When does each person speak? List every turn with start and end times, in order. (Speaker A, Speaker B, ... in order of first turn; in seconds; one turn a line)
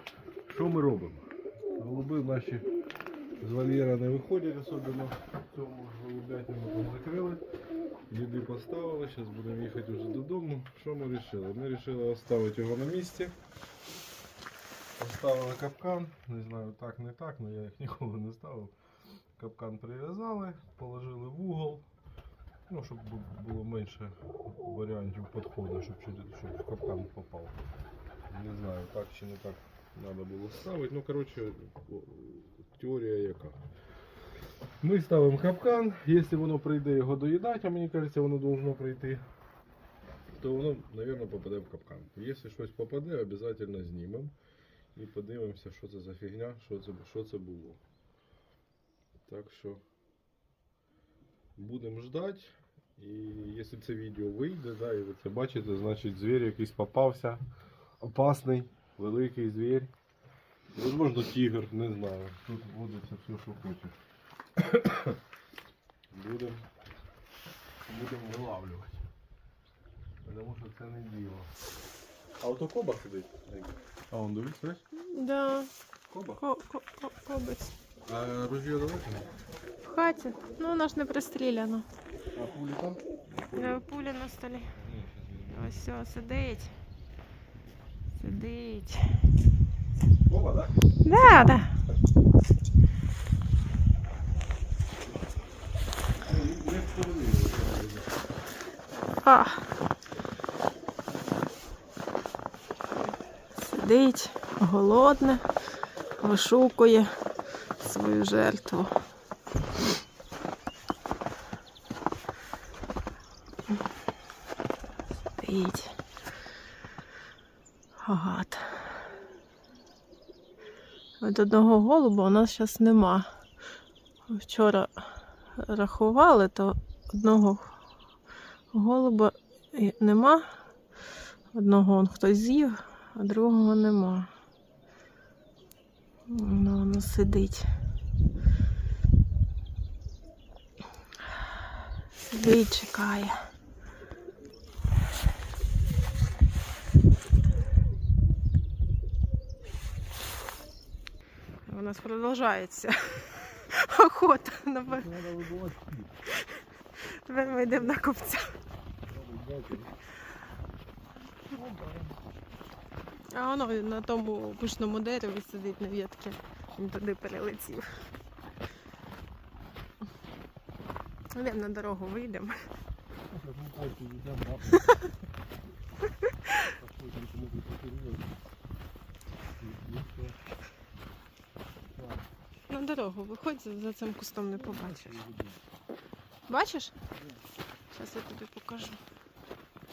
Speaker A: 0.5-2.7
Speaker A: 3.4-7.4
Speaker A: 8.1-13.4
Speaker A: 15.0-18.7
Speaker A: 19.4-21.9
Speaker A: 22.7-27.6
Speaker A: 28.3-33.6
Speaker A: 34.8-39.2
Speaker A: 40.4-44.3
Speaker A: 45.0-47.8
Speaker A: 49.3-49.8
Speaker A: 51.6-57.4
Speaker A: 58.0-59.9
Speaker A: 60.7-64.0
Speaker A: 64.6-65.2
Speaker A: 66.1-66.7
Speaker A: 67.9-69.0
Speaker A: 70.2-71.5
Speaker A: 72.4-74.8
Speaker B: 74.9-75.7
Speaker A: 76.1-76.4
Speaker B: 76.4-77.7
Speaker A: 78.1-79.3
Speaker B: 79.8-81.9
Speaker A: 82.3-83.9
Speaker B: 83.5-84.7
Speaker A: 84.8-85.8
Speaker B: 85.5-86.7
Speaker B: 88.2-89.1
Speaker A: 90.3-90.8
Speaker B: 91.0-91.7
Speaker A: 96.2-98.2
Speaker B: 99.2-99.6
Speaker B: 103.5-105.5
Speaker B: 106.2-107.1
Speaker B: 107.8-108.9
Speaker B: 115.4-115.9
Speaker B: 118.0-118.9
Speaker B: 121.2-123.3
Speaker B: 124.3-125.0
Speaker B: 125.6-127.7
Speaker B: 128.7-130.4
Speaker B: 131.5-134.3
Speaker B: 136.3-137.7
Speaker B: 142.3-143.3
Speaker B: 151.6-155.1
Speaker A: 154.9-156.2
Speaker B: 157.0-158.6
Speaker A: 157.4-158.0
Speaker A: 159.1-159.9
Speaker A: 161.5-162.2
Speaker B: 163.3-168.0
Speaker B: 171.3-172.6
Speaker A: 173.3-174.9
Speaker A: 176.8-178.3
Speaker A: 179.6-180.4
Speaker A: 181.9-182.2
Speaker B: 182.7-185.2
Speaker A: 184.6-185.6
Speaker B: 186.5-186.9
Speaker A: 187.1-187.4
Speaker B: 187.9-189.0